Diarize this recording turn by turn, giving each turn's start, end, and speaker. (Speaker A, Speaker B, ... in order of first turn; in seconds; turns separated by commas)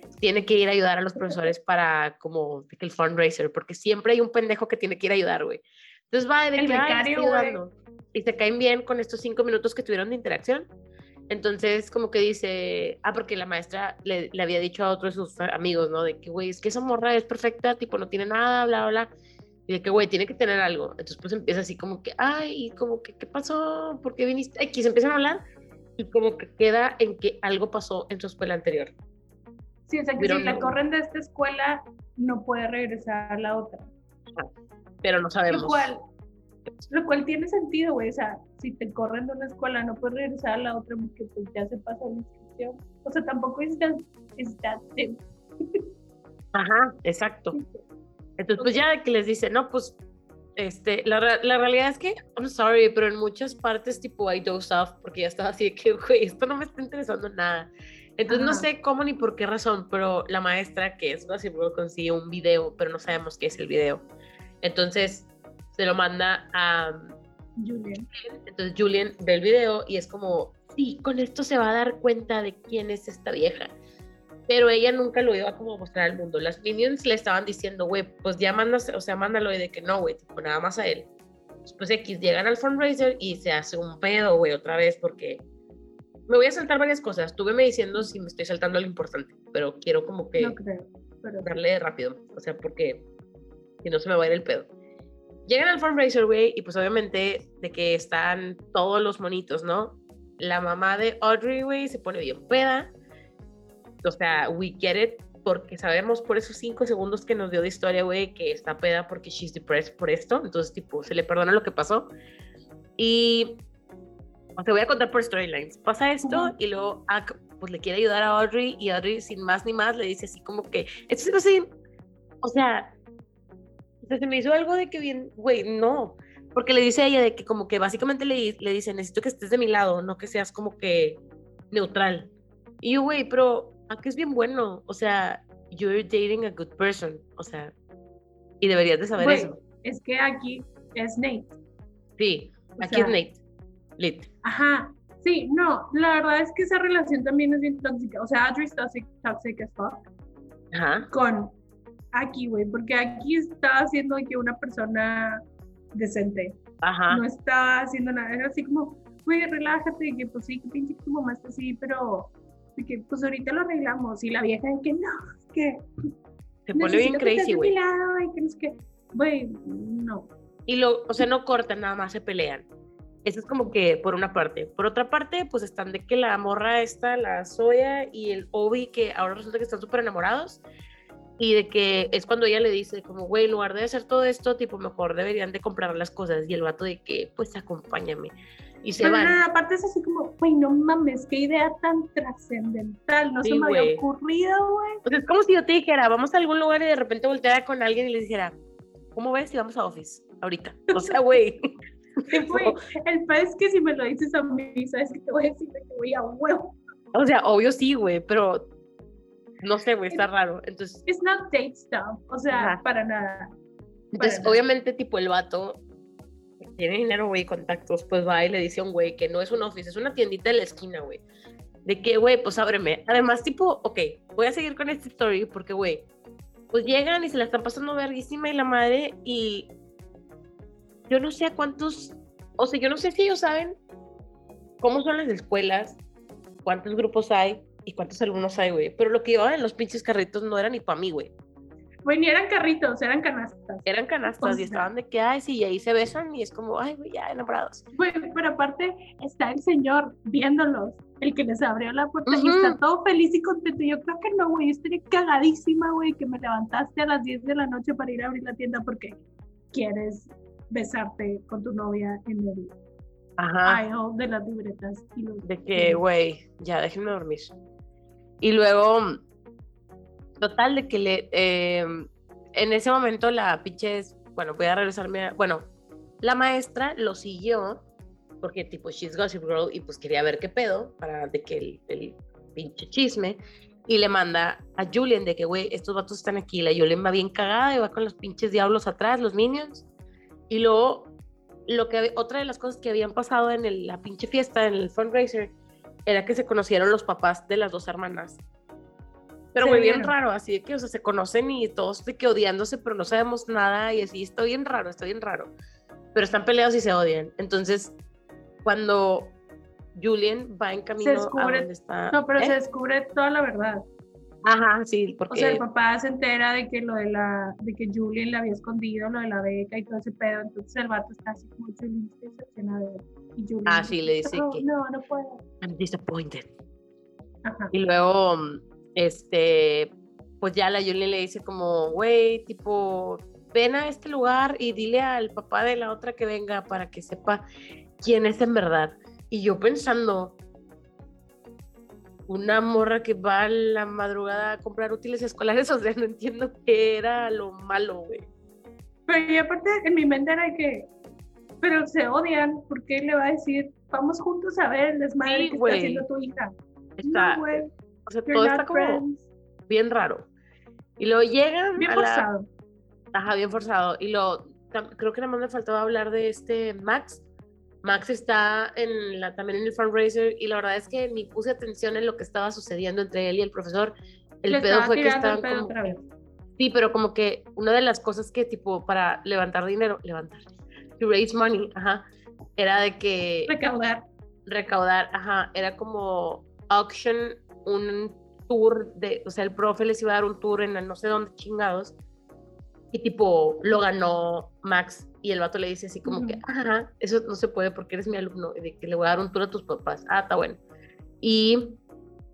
Speaker A: 0.1-10.7, Speaker B: 6.6-7.6, Speaker A: 11.3-19.1, Speaker A: 19.7-25.4, Speaker A: 26.0-28.9, Speaker B: 29.9-33.9, Speaker A: 30.2-30.8, Speaker A: 35.0-35.9, Speaker B: 35.5-36.0, Speaker B: 36.9-45.9, Speaker A: 46.5-47.6, Speaker B: 47.5-47.8, Speaker A: 48.4-50.0, Speaker B: 48.6-48.8, Speaker A: 50.6-64.0, Speaker B: 58.3-58.7, Speaker A: 64.6-67.2, Speaker B: 67.6-68.1, Speaker A: 68.1-73.7, Speaker A: 74.5-81.1, Speaker A: 81.7-85.4, Speaker A: 86.3-90.6, Speaker B: 90.4-91.5, Speaker A: 91.4-93.1, Speaker A: 93.8-94.7, Speaker A: 95.5-102.9, Speaker A: 104.0-112.1, Speaker A: 113.0-113.6, Speaker A: 114.6-121.7, Speaker B: 116.2-116.5, Speaker A: 122.4-123.0, Speaker A: 124.0-137.7, Speaker A: 138.6-139.6, Speaker B: 139.2-141.5, Speaker A: 142.2-143.4, Speaker B: 142.8-143.2, Speaker A: 144.0-144.3, Speaker B: 144.4-150.1, Speaker A: 150.7-151.1, Speaker B: 151.1-151.5, Speaker B: 152.1-155.4, Speaker B: 155.9-165.8, Speaker A: 156.8-157.2, Speaker A: 166.7-167.7, Speaker B: 166.8-170.3, Speaker A: 170.7-172.7, Speaker A: 173.2-180.6, Speaker A: 181.4-189.4, Speaker B: 189.0-195.0, Speaker A: 193.4-194.0, Speaker A: 195.1-198.6, Speaker A: 199.1-202.8, Speaker B: 200.9-201.2, Speaker B: 202.3-206.8, Speaker A: 207.1-208.7, Speaker A: 209.6-211.0, Speaker B: 211.1-213.5, Speaker A: 212.5-212.8, Speaker A: 214.1-215.8, Speaker B: 214.2-214.6, Speaker A: 216.6-221.2, Speaker A: 221.8-226.1, Speaker A: 226.7-229.7, Speaker A: 231.1-233.8, Speaker A: 234.8-236.0, Speaker A: 236.6-241.3, Speaker B: 242.1-243.9, Speaker A: 243.9-247.8, Speaker B: 244.4-244.9, Speaker B: 247.9-259.2, Speaker A: 252.3-252.8, Speaker B: 259.7-262.8, Speaker A: 263.4-263.8, Speaker B: 263.6-266.0, Speaker A: 265.4-267.6, Speaker A: 268.4-269.2, Speaker A: 270.4-275.7, Speaker A: 276.2-277.9, Speaker A: 278.4-289.9, Speaker A: 290.5-291.1, Speaker A: 291.7-295.5, Speaker A: 296.1-298.4, Speaker A: 299.5-305.5, Speaker B: 299.6-300.1, Speaker A: 306.1-307.9, Speaker A: 308.6-309.3, Speaker A: 309.9-312.6, Speaker B: 311.0-313.9, Speaker A: 314.4-315.6, Speaker B: 315.3-325.4, Speaker A: 323.7-324.7, Speaker A: 325.6-326.5, Speaker B: 327.4-327.7, Speaker A: 327.7-337.4, Speaker A: 338.0-340.4, Speaker A: 342.3-348.3, Speaker B: 349.1-350.9, Speaker B: 351.6-357.7, Speaker A: 355.2-356.1, Speaker A: 357.0-359.0, Speaker B: 358.3-359.3, Speaker A: 359.7-360.3, Speaker A: 361.0-362.3, Speaker B: 361.8-362.5, Speaker A: 363.1-367.2, Speaker A: 367.8-376.0, Speaker B: 374.5-376.0, Speaker A: 376.6-383.6, Speaker B: 383.5-384.0, Speaker A: 384.5-391.9, Speaker A: 392.9-400.6, Speaker B: 396.1-396.4, Speaker A: 401.2-401.8